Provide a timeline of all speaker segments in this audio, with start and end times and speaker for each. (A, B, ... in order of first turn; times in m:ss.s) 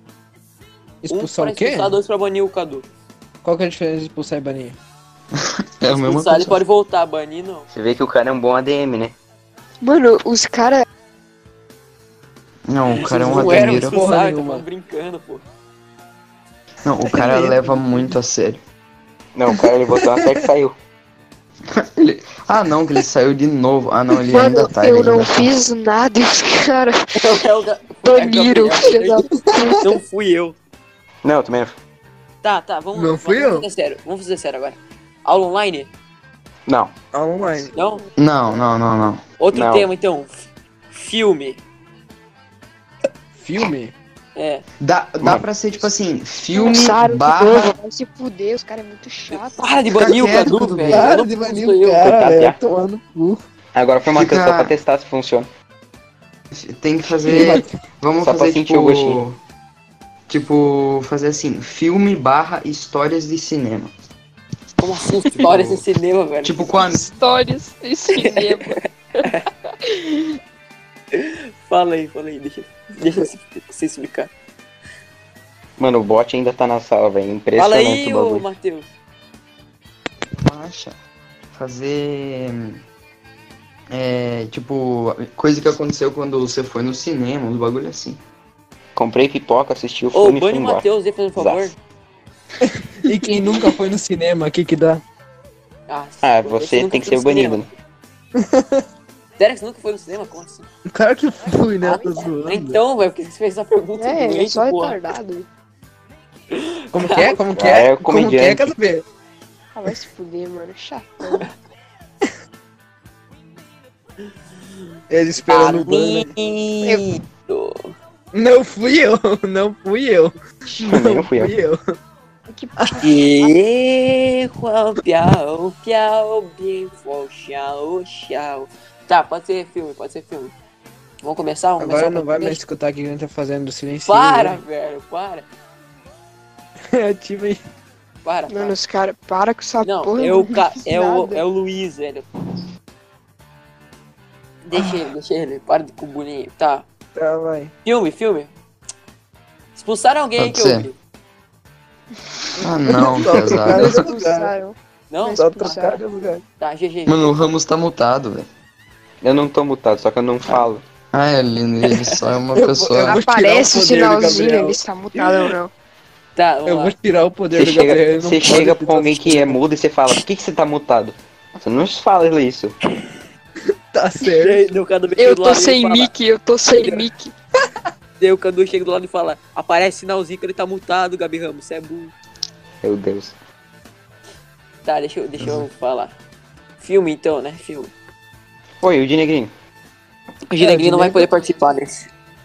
0:01.0-0:02.0 A
0:01.1-0:02.9 B
0:03.4-0:04.8 A
0:05.4-0:06.6 C
0:05.9-0:07.7 B
0:07.7-0:09.2 D
0:09.8-0:10.8 E
0:12.7-0:14.0 C
0:13.0-0:14.6 A
0:13.1-0:15.4 B
0:16.8-0:18.6 C
0:17.1-0:18.1 A
0:19.4-0:20.8 D
0:20.0-0:20.4 A
0:21.8-0:25.5 C
0:24.3-0:27.0 E
0:27.2-0:29.3 B
0:28.0-0:29.8 E
0:29.3-0:29.8 A
0:29.8-0:30.6 B
0:31.2-0:31.8 D
0:32.4-0:35.9 B
0:33.0-0:33.7 A
0:36.7-0:36.9 D
0:37.1-0:37.7 A
0:37.7-0:38.0 E
0:37.7-0:38.0 B
0:38.2-0:39.2 C
0:39.4-0:41.6 B
0:39.5-0:39.9 D
0:43.4-0:43.9 A
0:44.4-0:44.6 B
0:44.8-0:47.7 C
0:46.6-0:49.7 E
0:49.3-0:52.0 B
0:49.9-0:51.1 C
0:50.8-0:53.4 A
0:52.0-0:52.6 D
0:53.8-0:55.5 D
0:54.0-0:54.7 C
0:56.5-0:59.4 C
0:57.3-0:57.7 A
0:58.2-0:59.2 D
1:00.3-1:03.9 C
1:04.8-1:06.6 B
1:05.3-1:05.8 C
1:06.4-1:07.1 C
1:06.8-1:09.3 E
1:08.2-1:09.4 B
1:09.8-1:10.1 E
1:11.2-1:14.3 B
1:15.8-1:18.5 D
1:17.6-1:18.9 B
1:20.4-1:21.0 C
1:21.5-1:22.8 C
1:23.9-1:28.2 C
1:29.0-1:30.8 D
1:30.1-1:31.8 B
1:31.4-1:31.7 D
1:32.6-1:35.0 A
1:35.9-1:37.7 B
1:36.2-1:37.7 D
1:38.4-1:38.8 A
1:39.4-1:40.7 B
1:40.9-1:42.8 A
1:41.8-1:45.0 B
1:44.0-1:45.5 E
1:46.5-1:47.4 B
1:46.9-1:49.0 A
1:47.5-1:48.7 D
1:49.8-1:51.5 E
1:55.1-1:56.3 A
1:55.4-1:57.9 B
1:58.3-2:01.8 A
2:00.9-2:01.5 D
2:02.5-2:03.5 E
2:02.8-2:03.0 A
2:03.0-2:10.5 B
2:11.2-2:12.6 B
2:11.8-2:14.6 A
2:14.1-2:15.5 B
2:16.9-2:17.6 A
2:18.2-2:18.8 B
2:18.5-2:21.4 E
2:19.8-2:22.3 B
2:24.6-2:26.9 B
2:24.7-2:25.1 A
2:27.2-2:27.7 A
2:27.8-2:28.5 B
2:29.8-2:31.0 B
2:30.4-2:30.9 C
2:32.6-2:34.5 A
2:32.6-2:33.9 C
2:33.5-2:36.0 E
2:35.1-2:36.0 B
2:35.4-2:36.4 A
2:36.6-2:37.4 B
2:37.1-2:38.5 C
2:39.2-2:40.8 D
2:41.1-2:43.2 C
2:42.5-2:45.4 A
2:43.0-2:45.7 E
2:46.4-2:46.9 B
2:46.7-2:49.6 A
2:47.5-2:52.8 D
2:53.9-2:54.6 A
2:54.3-2:56.1 B
2:55.2-2:57.3 E
2:58.2-3:02.1 B
3:02.8-3:03.4 D
3:04.8-3:06.1 B
3:06.8-3:07.9 B
3:08.8-3:09.5 D
3:10.5-3:12.1 B
3:10.6-3:11.3 A